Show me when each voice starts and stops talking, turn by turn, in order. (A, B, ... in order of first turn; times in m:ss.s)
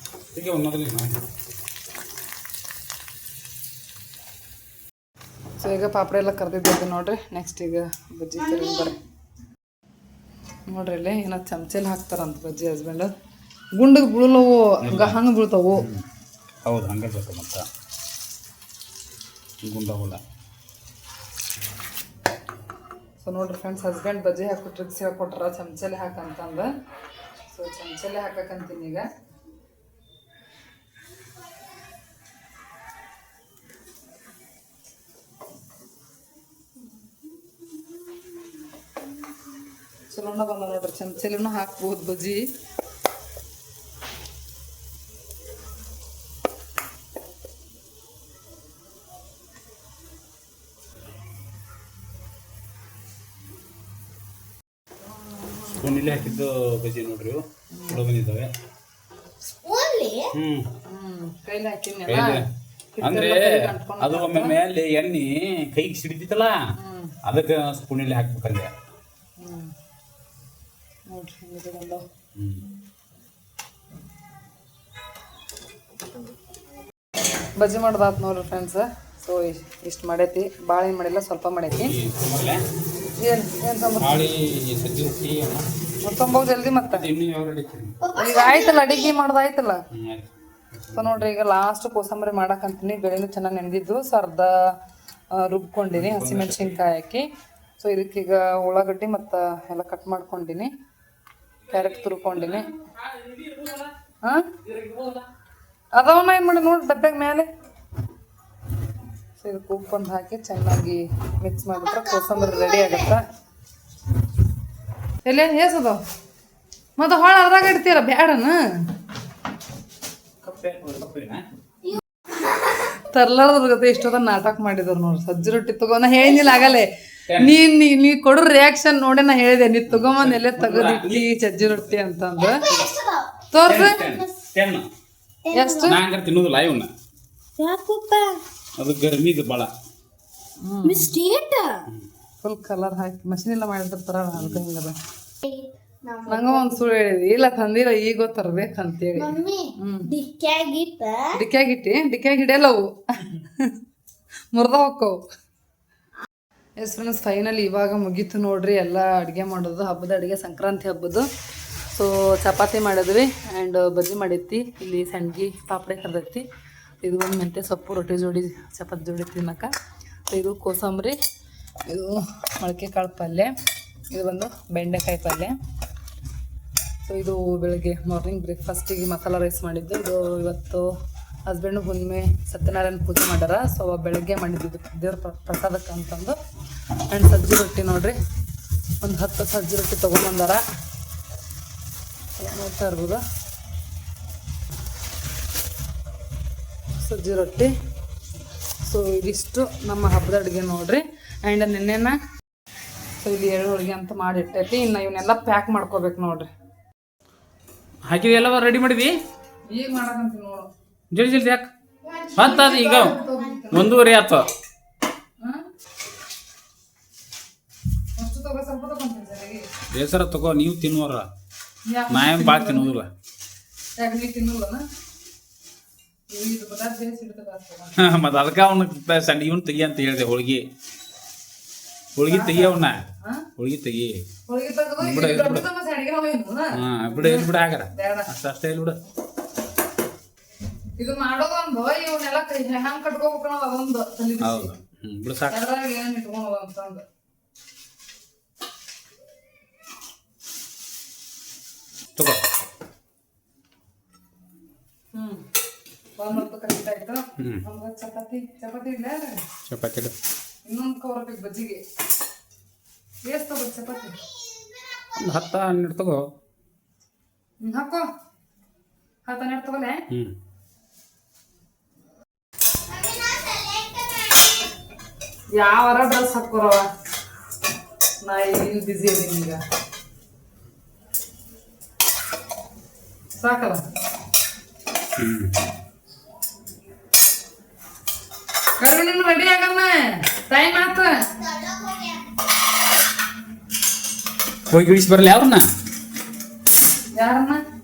0:00.3-0:01.2 A
0:05.6-0:09.0 B
0:08.4-0:08.9 C
0:10.7-0:13.1 B
0:13.7-0:15.9 B
0:14.8-0:15.2 A
0:15.8-0:16.1 A
0:16.6-0:17.7 A
0:19.6-0:20.2 A
0:23.2-0:26.7 B
0:27.5-0:29.1 B
0:40.1-0:42.5 B
0:55.7-0:58.5 A
0:57.7-0:58.0 B
0:59.5-1:00.3 C
1:00.3-1:00.7 A
1:00.9-1:04.6 B
1:02.1-1:02.5 A
1:03.0-1:06.7 A
1:06.8-1:07.2 B
1:07.2-1:08.7 A
1:09.4-1:09.7 B
1:11.1-1:12.0 B
1:12.4-1:12.6 A
1:17.6-1:22.0 B
1:21.8-1:22.6 A
1:23.2-1:24.3 B
1:24.0-1:25.7 A
1:26.0-1:27.1 B
1:26.9-1:28.0 A
1:28.0-1:29.2 C
1:28.2-1:29.8 B
1:29.9-1:31.3 A
1:31.0-1:34.7 B
1:35.3-1:37.3 B
1:35.9-1:36.8 A
1:37.8-1:40.7 B
1:41.7-1:43.9 A
1:41.7-1:42.7 B
1:44.2-1:44.5 B
1:44.6-1:45.3 A
1:46.0-1:47.5 B
1:49.4-1:53.2 B
1:51.8-1:53.1 C
1:55.2-1:56.0 B
1:57.0-1:58.6 B
2:00.4-2:01.4 A
2:03.1-2:12.7 B
2:06.2-2:06.8 C
2:07.3-2:07.5 A
2:09.9-2:12.0 A
2:12.4-2:14.3 C
2:12.6-2:12.9 A
2:13.5-2:14.0 B
2:13.7-2:14.9 A
2:15.4-2:16.0 C
2:15.5-2:16.0 B
2:15.9-2:16.9 A
2:17.6-2:18.4 C
2:18.8-2:19.7 A
2:20.6-2:21.1 B
2:20.8-2:21.9 C
2:22.4-2:25.0 B
2:24.4-2:24.6 A
2:25.4-2:26.8 C
2:26.3-2:30.1 B
2:29.2-2:31.4 C
2:31.3-2:33.7 B
2:34.5-2:35.2 B
2:36.8-2:41.3 B
2:41.9-2:46.5 B
2:47.0-2:49.7 B
2:50.3-2:51.2 B
2:51.9-2:53.5 B
2:54.1-2:55.6 B
2:57.1-3:00.9 B
3:01.5-3:06.4 B
3:07.1-3:08.2 B
3:09.0-3:10.6 B
3:12.4-3:13.2 B
3:17.0-3:17.7 B
3:18.9-3:22.2 B
3:23.2-3:26.5 B
3:28.0-3:29.2 A
3:29.7-3:30.7 B
3:31.1-3:31.7 A
3:32.0-3:34.4 C
3:32.4-3:33.2 A
3:32.5-3:34.1 B
3:33.7-3:34.5 A
3:38.2-3:39.6 B
3:39.9-3:41.3 A
3:41.9-3:42.9 B
3:42.1-3:43.1 A
3:44.0-3:44.9 B
3:46.3-3:48.0 B
3:48.0-3:50.7 A
3:52.2-3:53.0 A
3:52.3-3:53.5 B
3:53.6-3:54.3 A
3:54.5-3:58.3 B
3:55.0-3:55.7 A
3:56.8-3:59.0 A
4:01.0-4:04.7 B
4:04.4-4:05.6 A
4:05.5-4:07.0 B
4:12.2-4:12.4 A
4:15.1-4:15.4 B
4:16.2-4:19.4 B
4:17.4-4:17.6 A
4:19.7-4:20.1 A
4:20.7-4:21.8 B
4:23.2-4:24.2 B
4:24.3-4:25.5 C
4:25.2-4:26.3 A
4:27.6-4:28.1 B
4:29.3-4:30.0 B
4:30.1-4:30.4 A
4:32.9-4:34.6 C
4:35.6-4:36.9 B
4:38.2-4:39.6 B
4:43.4-4:43.8 B
4:45.2-4:45.6 A
4:48.8-4:51.4 B
4:51.3-4:52.3 C
4:54.7-4:55.7 A
4:57.2-4:57.6 B